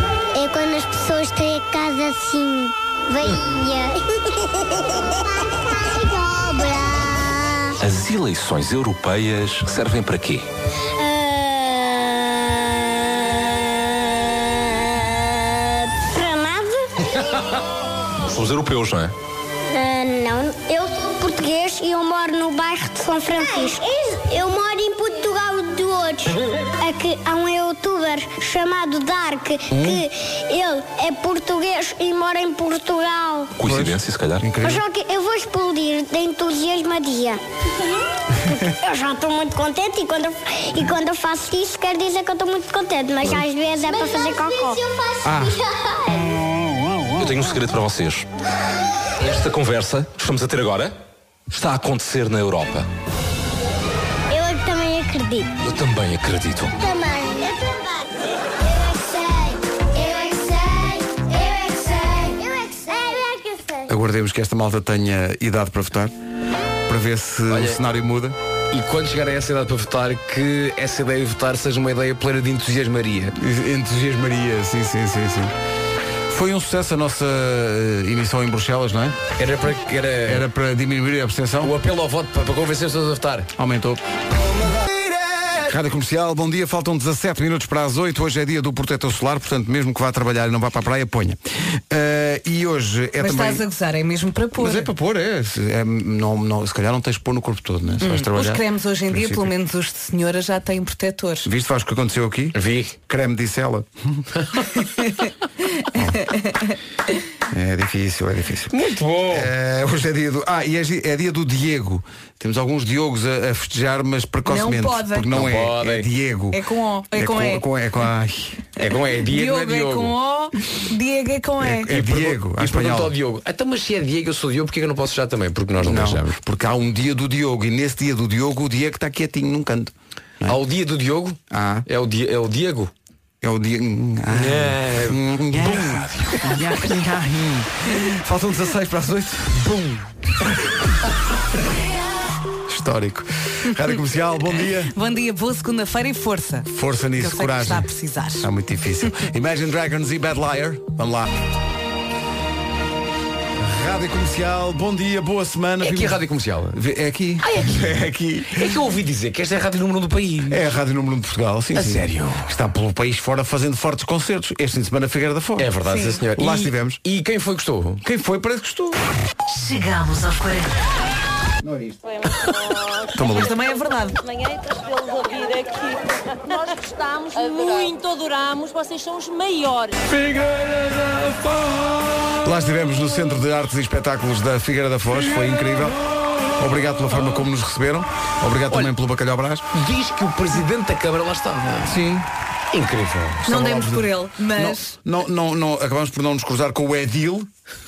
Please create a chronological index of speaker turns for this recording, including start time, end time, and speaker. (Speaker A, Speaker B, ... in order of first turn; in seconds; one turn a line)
Speaker A: 0.3-7.8
Speaker B: 7.8-10.5
Speaker A: 11.0-17.1
Speaker B: 18.3-19.1
Speaker A: 19.7-33.5
Speaker C: 29.7-30.0
Speaker B: 33.6-34.5
Speaker C: 33.6-34.8
Speaker A: 34.6-37.4
Speaker A: 38.5-46.3
Speaker C: 45.2-45.5
Speaker B: 47.2-48.3
Speaker B: 49.2-50.9
Speaker B: 51.5-52.9
Speaker A: 54.3-55.6
Speaker B: 55.6-56.8
Speaker A: 56.7-58.1
Speaker A: 58.6-63.9
Speaker C: 63.9-66.1
Speaker C: 66.9-68.4
Speaker D: 67.5-67.8
Speaker D: 68.7-73.3
Speaker C: 73.3-75.5
Speaker C: 76.3-79.2
Speaker D: 79.4-80.5
Speaker C: 80.2-81.8
Speaker D: 81.6-83.5
Speaker C: 83.6-84.0
Speaker C: 85.6-91.4
Speaker C: 91.9-93.7
Speaker E: 93.2-94.9
Speaker C: 94.5-99.5
Speaker E: 98.0-101.5
Speaker C: 101.5-104.2
Speaker D: 102.5-103.0
Speaker D: 104.4-104.6
Speaker E: 105.0-105.3
Speaker C: 105.9-106.3
Speaker E: 106.3-106.8
Speaker C: 107.5-108.8
Speaker D: 108.7-109.5
Speaker C: 109.3-116.6
Speaker E: 114.5-115.3
Speaker D: 115.3-116.1
Speaker E: 116.5-117.6
Speaker C: 117.1-118.6
Speaker D: 118.8-120.2
Speaker E: 119.3-122.0
Speaker C: 121.6-123.2
Speaker D: 121.9-126.4
Speaker C: 125.8-130.6
Speaker D: 130.4-132.9
Speaker C: 131.5-131.9
Speaker C: 133.4-139.7
Speaker D: 134.3-136.1
Speaker D: 139.6-139.9
Speaker C: 142.7-144.9
Speaker E: 144.9-148.5
Speaker C: 146.7-151.3
Speaker C: 153.6-158.8
Speaker D: 155.8-156.8
Speaker D: 157.4-158.0
Speaker D: 158.5-160.7
Speaker C: 160.5-165.7
Speaker D: 161.8-162.5
Speaker D: 165.6-168.0
Speaker E: 165.9-166.2
Speaker C: 166.3-167.0
Speaker C: 168.0-169.1
Speaker E: 169.5-170.7
Speaker C: 171.6-172.0
Speaker C: 173.1-173.6
Speaker E: 173.3-174.2
Speaker F: 174.3-176.0
Speaker F: 176.5-179.9
Speaker C: 182.4-186.0
Speaker C: 186.6-189.7
Speaker D: 189.7-192.0
Speaker C: 191.8-192.3
Speaker D: 192.7-193.5
Speaker C: 193.5-197.5
Speaker E: 193.5-194.9